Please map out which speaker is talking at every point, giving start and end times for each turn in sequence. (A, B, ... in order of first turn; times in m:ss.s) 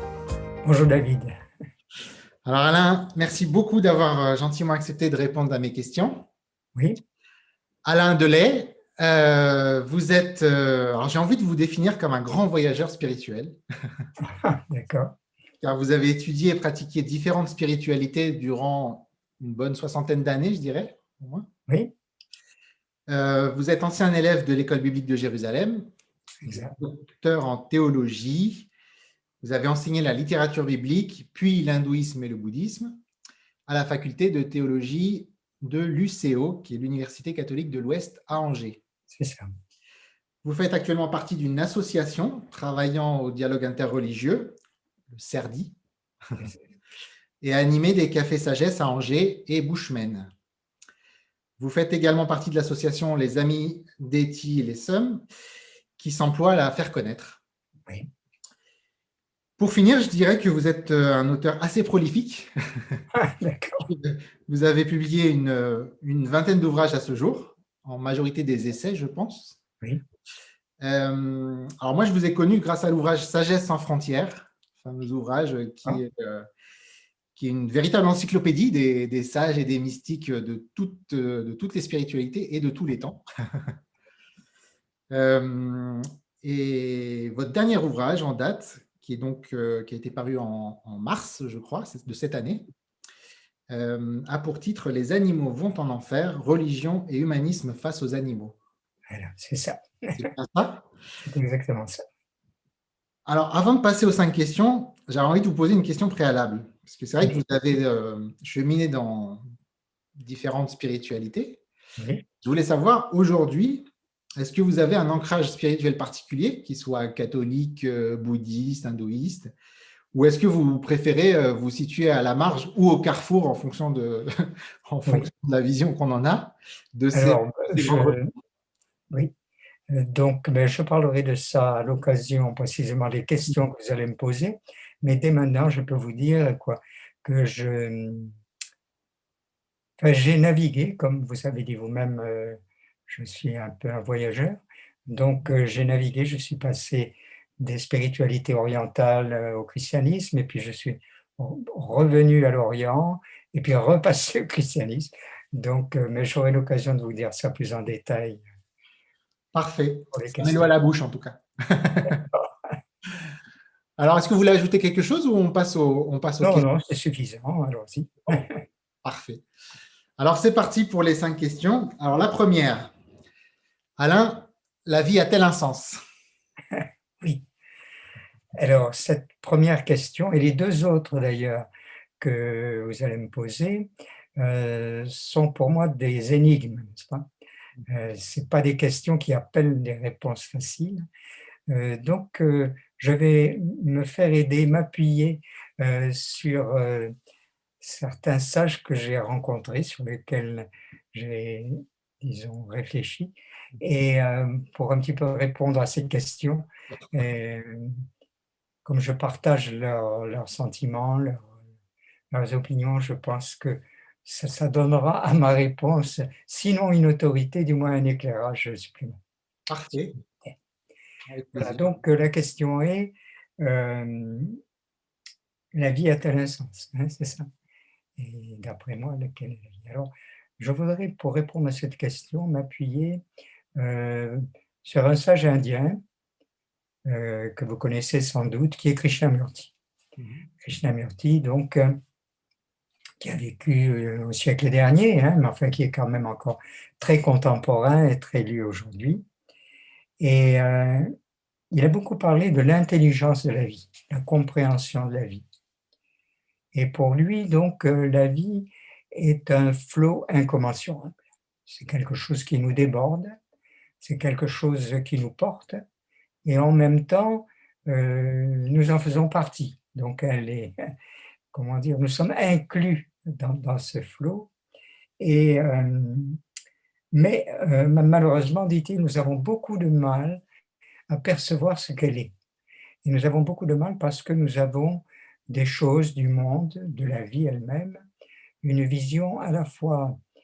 0:00.6-0:01.4 A
0:02.4-0:06.3 B
0:06.8-0:07.0 A
0:07.8-0:14.0 B
0:14.2-0:15.2 A
0:15.6-0:21.5 B
0:21.7-0:21.9 A
0:23.1-0:25.9 B
0:26.4-0:26.8 A
0:26.8-0:28.7 B
0:29.4-0:33.0 B
0:33.7-0:38.8 B
0:39.1-0:39.5 A
0:40.4-0:44.6 B
0:45.1-0:45.8 B
0:47.4-0:50.3 B
0:51.6-0:55.2 B
0:56.0-0:57.4 B
0:59.6-1:03.0 B
1:03.1-1:03.9 A
1:03.9-1:09.6 B
1:10.8-1:16.5 B
1:17.3-1:23.8 B
1:25.1-1:32.7 B
1:33.7-1:38.6 B
1:39.1-1:40.3 A
1:40.2-1:40.8 B
1:41.2-1:42.0 A
1:43.2-1:49.4 B
1:50.2-1:51.6 B
1:52.0-1:52.2 A
1:52.4-1:59.5 B
2:00.1-2:08.2 B
2:07.1-2:08.3 A
2:09.9-2:18.3 A
2:20.0-2:38.4 A
2:39.5-2:42.3 B
2:40.1-2:40.7 A
2:42.1-2:42.5 A
2:44.0-2:46.7 B
2:46.4-2:48.6 A
2:49.0-2:49.4 B
2:50.2-2:52.9 B
2:54.0-2:56.0 B
2:58.5-3:01.6 A
3:02.2-3:07.3 A
3:07.9-3:11.0 A
3:11.7-3:17.1 A
3:17.8-3:28.0 A
3:28.8-3:31.5 A
3:32.3-3:39.2 A
3:39.7-3:40.1 B
3:41.3-3:41.9 B
3:41.6-3:44.6 A
3:45.7-3:47.5 A
3:48.2-3:53.2 A
3:53.8-3:56.0 A
3:57.0-3:59.7 A
4:00.2-4:00.4 B
4:00.6-4:02.0 A
4:03.2-4:09.2 A
4:10.2-4:11.1 A
4:11.7-4:15.4 A
4:16.7-4:21.1 A
4:21.6-4:23.4 A
4:24.0-4:25.8 A
4:26.4-4:30.8 A
4:31.5-4:34.5 A
4:35.2-4:36.4 A
4:37.1-4:40.4 A
4:41.1-4:42.3 A
4:43.0-4:48.0 A
4:48.6-4:50.2 A